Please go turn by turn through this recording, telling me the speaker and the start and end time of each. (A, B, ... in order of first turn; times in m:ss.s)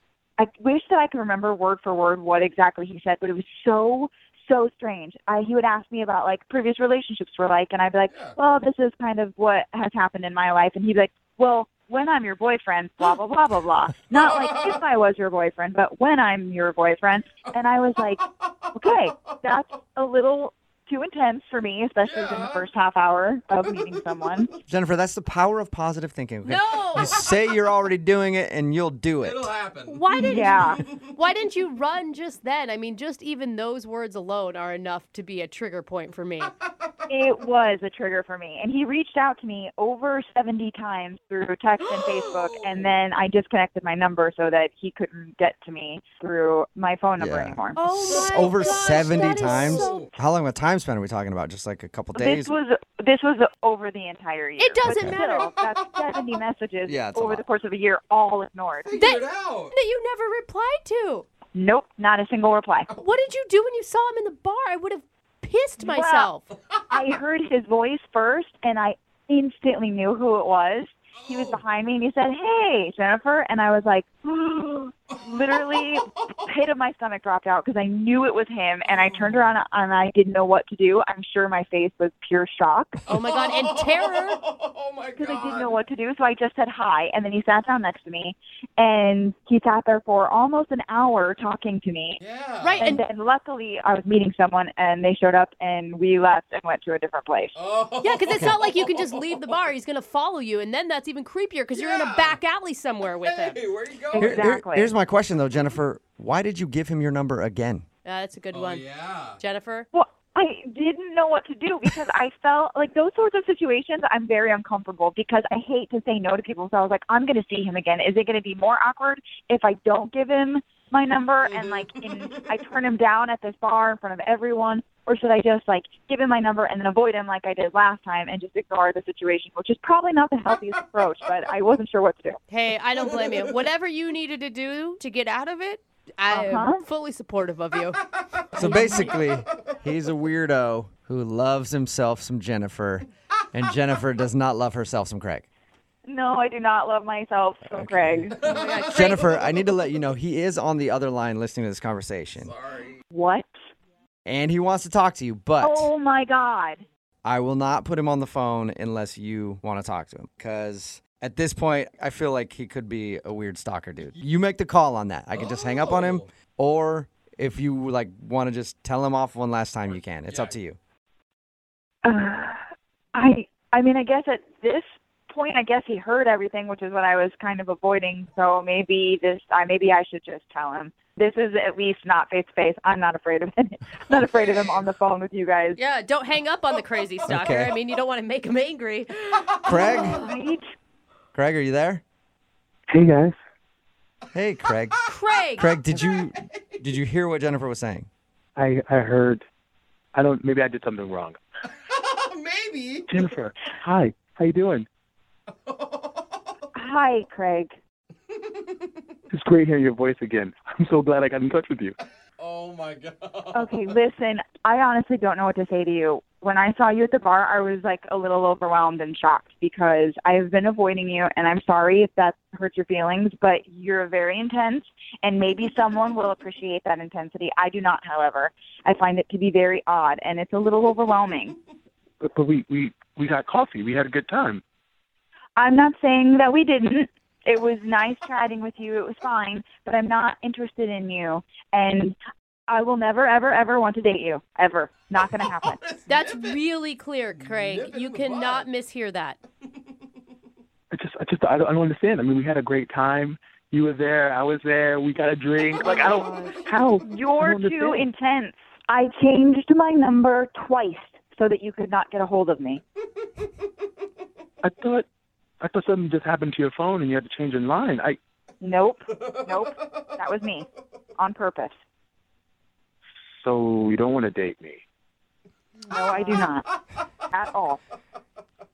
0:00.4-0:18.2 A
0:08.1-0:08.4 B
0:14.1-0:14.8 B
0:18.7-0:24.5 A
0:22.0-0:22.7 B
0:24.7-0:29.5 C
0:26.4-0:27.3 D
0:29.2-0:30.0 B
0:29.9-0:36.5 D
0:30.1-0:30.8 A
0:30.8-0:31.1 B
0:37.1-0:47.8 A
0:42.5-0:42.9 B
0:47.2-0:52.5 C
0:47.8-0:50.0 D
0:49.3-0:50.1 B
0:52.1-0:58.9 A
0:54.6-0:55.5 D
0:54.9-0:55.2 C
0:56.9-0:57.4 C
0:58.9-0:59.8 B
0:58.9-1:01.3 D
1:01.5-1:02.9 A
1:03.0-1:06.5 D
1:05.8-1:06.3 A
1:06.9-1:23.0 A
1:11.2-1:11.6 B
1:18.8-1:19.5 B
1:23.1-1:24.4 D
1:23.1-1:25.8 B
1:25.2-1:32.2 A
1:32.2-1:33.0 B
1:32.6-1:33.0 D
1:32.8-1:37.6 A
1:37.6-1:39.3 B
1:38.0-1:43.6 D
1:41.7-1:42.4 B
1:43.2-1:44.4 B
1:44.2-1:44.9 A
1:44.2-1:47.8 C
1:48.0-1:48.9 D
1:48.5-1:49.4 B
1:49.4-1:49.9 D
1:49.9-2:12.4 A
2:12.5-2:18.0 D
2:16.3-2:16.8 A
2:18.6-2:25.5 C
2:18.6-2:19.4 B
2:18.6-2:18.9 D
2:26.0-2:28.4 A
2:27.8-2:28.2 C
2:28.4-2:29.3 B
2:28.4-2:29.4 D
2:28.8-2:32.5 C
2:32.4-2:33.0 B
2:33.1-2:33.5 A
2:34.2-2:35.9 C
2:35.6-2:36.8 A
2:37.2-2:50.8 C
2:45.4-2:46.3 B
2:50.3-2:50.5 B
2:52.0-3:05.8 A
3:05.8-3:10.2 D
3:07.3-3:07.7 C
3:09.7-3:10.2 C
3:09.7-3:10.7 A
3:11.4-3:12.0 C
3:12.9-3:13.4 E
3:14.3-3:15.0 C
3:15.1-3:15.7 D
3:15.6-3:18.1 C
3:18.6-3:19.4 E
3:20.1-3:21.4 E
3:21.7-3:23.2 B
3:23.1-3:24.9 E
3:25.7-3:26.3 B
3:26.8-3:27.7 A
3:28.6-3:28.9 B
3:29.3-3:32.0 E
3:32.4-3:33.8 B
3:33.5-3:51.6 A
3:52.2-3:54.6 E
3:55.6-4:02.2 A
4:02.7-4:05.8 A
4:05.5-4:06.6 B
4:06.1-4:09.4 D
4:07.4-4:08.7 B
4:10.9-4:18.1 E
4:15.8-4:16.7 D
4:16.7-4:22.8 A
4:24.6-4:25.1 E
4:25.6-4:28.2 E
4:28.6-4:30.7 A
4:29.2-4:29.5 B
4:31.2-4:31.8 A
4:33.4-4:34.8 E
4:35.9-4:36.7 A
4:35.9-4:36.5 D
4:37.3-4:37.8 A